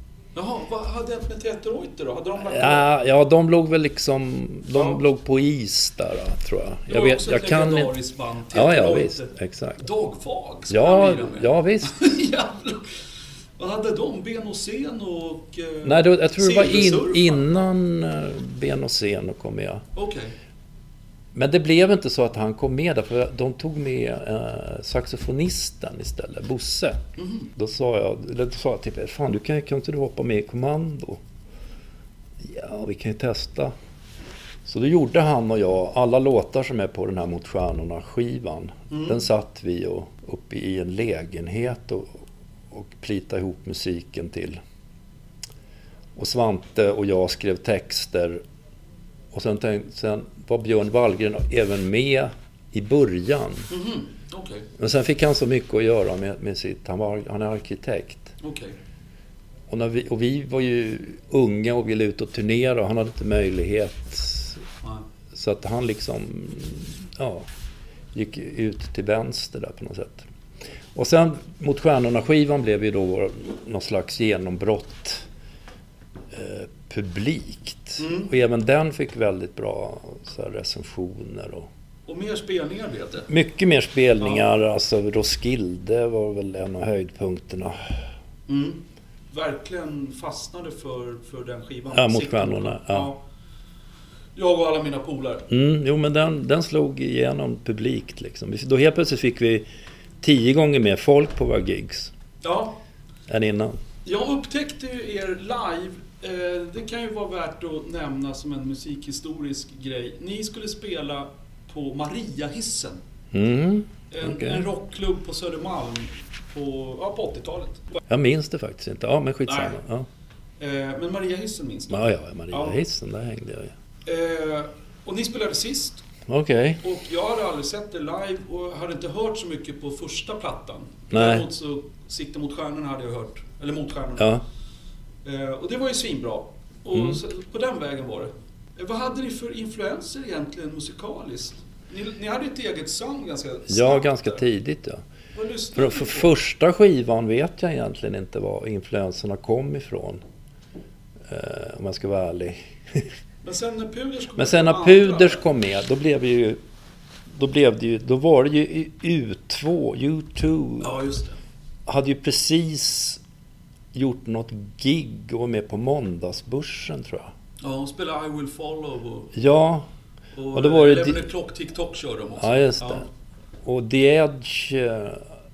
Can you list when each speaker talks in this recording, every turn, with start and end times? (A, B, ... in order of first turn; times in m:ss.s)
0:00.4-0:02.9 A
0:02.4-0:07.9 B
0:04.7-0:05.0 A
0:06.9-0:12.9 A
0:08.5-0:09.8 B
0:10.7-0:12.1 B
0:13.6-0:17.5 A
0:15.8-0:19.8 B
0:20.0-0:20.3 A
0:21.3-0:31.2 B
0:27.2-0:27.5 A
0:32.4-0:33.7 B
0:34.6-0:42.1 B
0:38.9-0:39.2 A
0:42.7-0:44.6 B
0:46.2-0:48.4 B
0:49.3-0:53.7 B
0:53.7-0:54.7 A
0:54.8-0:58.3 B
0:58.4-0:58.8 A
0:59.7-1:04.6 B
1:05.3-1:07.5 B
1:08.1-1:10.3 B
1:11.0-1:15.3 B
1:16.3-1:21.7 B
1:18.0-1:18.3 A
1:22.1-1:23.3 A
1:23.3-1:27.8 B
1:24.2-1:24.5 A
1:28.5-1:33.2 A
1:31.9-1:33.1 B
1:34.4-1:35.5 A
1:35.5-1:39.7 B
1:40.2-1:42.1 B
1:42.4-1:42.8 A
1:43.3-1:43.8 B
1:44.0-1:53.0 A
1:53.3-1:54.7 B
1:54.1-1:57.9 A
1:58.1-2:00.1 B
1:59.5-1:59.8 A
2:00.6-2:02.8 A
2:01.9-2:03.7 B
2:04.1-2:06.0 A
2:06.3-2:06.8 B
2:06.8-2:14.3 A
2:11.1-2:11.5 B
2:14.2-2:14.4 B
2:15.2-2:24.4 A
2:16.9-2:17.2 B
2:23.7-2:25.0 B
2:25.3-2:26.4 A
2:25.8-2:30.2 B
2:31.3-2:33.1 B
2:33.4-2:35.4 A
2:34.4-2:36.6 B
2:37.3-2:41.0 B
2:40.8-2:41.4 A
2:41.9-2:43.2 B
2:43.9-2:47.3 B
2:47.6-2:49.4 A
2:49.3-2:49.9 B
2:50.4-2:53.1 A
2:50.5-2:51.2 B
2:52.4-2:53.1 B
2:53.6-2:55.3 B